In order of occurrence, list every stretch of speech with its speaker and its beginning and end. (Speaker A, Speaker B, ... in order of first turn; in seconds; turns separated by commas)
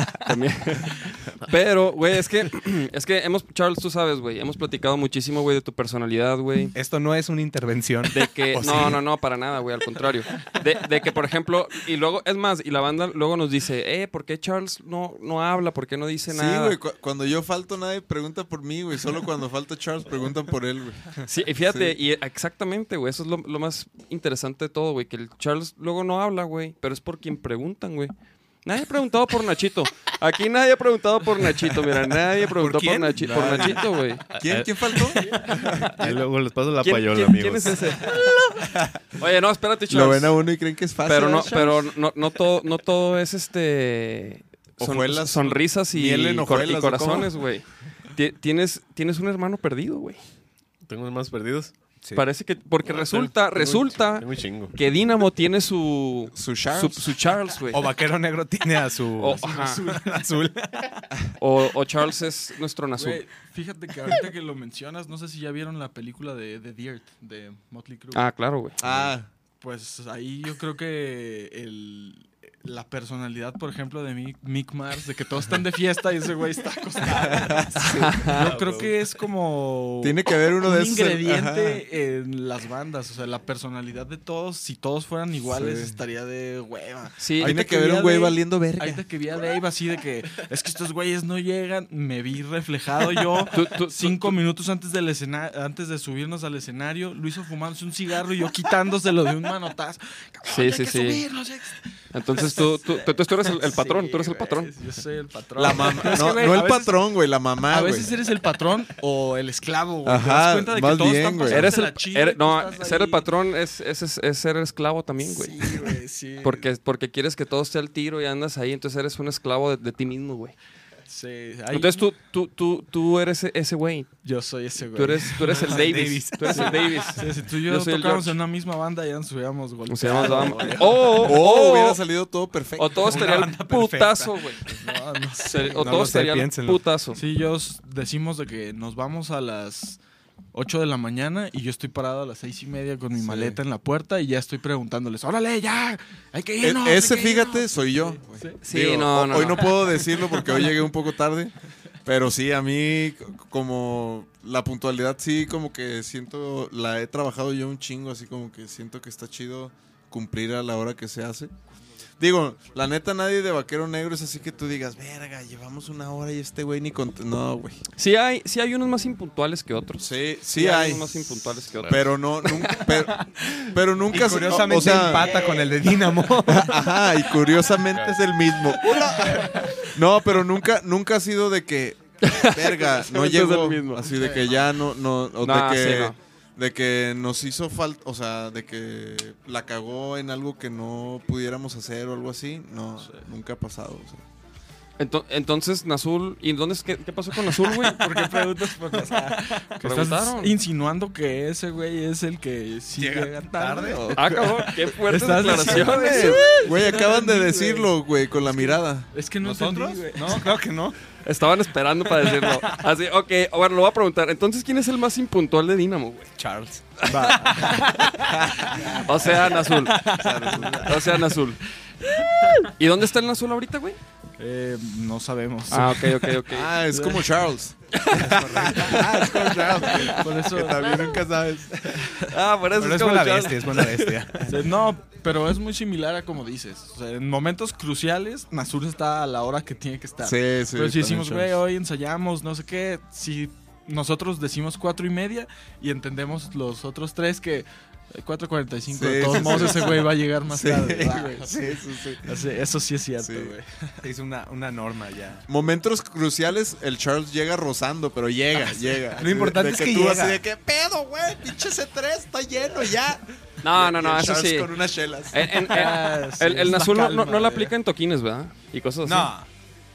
Speaker A: 0.2-6.7, Speaker B: 6.7-9.0, Speaker A: 8.1-16.8, Speaker C: 16.3-21.9, Speaker A: 21.3-34.2, Speaker B: 32.5-33.8, Speaker C: 33.2-33.8, Speaker D: 34.3-38.3, Speaker C: 34.4-35.7, Speaker A: 36.8-38.3, Speaker A: 39.1-40.4, Speaker C: 39.9-41.8, Speaker A: 41.0-50.3, Speaker C: 44.8-47.4, Speaker D: 50.9-51.8, Speaker A: 52.1-57.9, Speaker D: 52.8-54.8, Speaker C: 56.3-57.2, Speaker B: 57.7-61.0, Speaker A: 59.2-59.8, Speaker E: 59.2-60.2, Speaker A: 61.4-63.2, Speaker E: 63.0-69.1, Speaker A: 68.1-68.8, Speaker C: 68.8-69.3, Speaker E: 69.6-107.0, Speaker C: 77.2-78.3, Speaker A: 77.8-78.3, Speaker D: 78.3-79.0, Speaker C: 80.0-81.8, Speaker C: 85.5-86.0, Speaker A: 87.2-87.5, Speaker C: 87.4-89.0, Speaker A: 93.5-94.4, Speaker A: 100.5-101.2, Speaker A: 102.1-104.7, Speaker C: 105.5-108.1, Speaker E: 107.6-113.3, Speaker C: 110.0-111.8, Speaker A: 111.4-120.6, Speaker E: 115.2-116.7, Speaker E: 121.1-122.1, Speaker A: 121.7-128.4, Speaker E: 124.2-131.3, Speaker B: 125.5-127.0, Speaker A: 129.9-132.0, Speaker C: 131.0-133.3, Speaker A: 132.8-134.8, Speaker B: 133.0-134.8, Speaker E: 134.8-136.2, Speaker A: 135.5-137.2, Speaker B: 135.8-136.8, Speaker E: 137.1-140.0, Speaker E: 140.5-148.6, Speaker C: 143.2-143.6, Speaker C: 146.6-161.5, Speaker A: 148.6-149.7, Speaker E: 149.6-150.7, Speaker C: 162.2-167.8, Speaker A: 168.0-172.9, Speaker C: 170.0-175.4, Speaker B: 174.1-176.8, Speaker C: 176.4-194.2, Speaker D: 177.9-178.2, Speaker A: 182.2-184.1, Speaker E: 184.2-184.4, Speaker A: 185.4-186.2, Speaker A: 195.0-198.0, Speaker E: 197.5-210.5, Speaker A: 199.8-200.5, Speaker B: 202.9-204.2, Speaker A: 204.1-206.6, Speaker C: 205.3-209.1, Speaker B: 209.4-211.0, Speaker A: 211.2-216.3, Speaker B: 216.4-218.4, Speaker E: 217.1-217.9, Speaker A: 219.0-220.2, Speaker B: 219.9-220.4, Speaker C: 220.1-220.9, Speaker E: 220.6-220.9, Speaker A: 220.8-221.6, Speaker A: 222.6-224.0, Speaker E: 224.4-226.4, Speaker A: 225.7-226.7, Speaker C: 226.5-231.9, Speaker E: 226.9-227.3, Speaker A: 227.9-230.2, Speaker E: 228.8-231.1, Speaker E: 231.9-232.2, Speaker A: 232.3-234.1, Speaker B: 232.8-234.6, Speaker E: 234.5-254.0, Speaker C: 240.2-241.6, Speaker C: 248.9-252.5, Speaker B: 249.4-249.7, Speaker B: 251.5-251.7, Speaker C: 253.2-253.5, Speaker B: 254.0-255.4, Speaker C: 255.5-266.0, Speaker E: 258.7-259.1, Speaker B: 259.2-260.4, Speaker A: 263.6-269.3, Speaker E: 265.6-267.7, Speaker C: 266.9-267.4, Speaker B: 269.0-269.5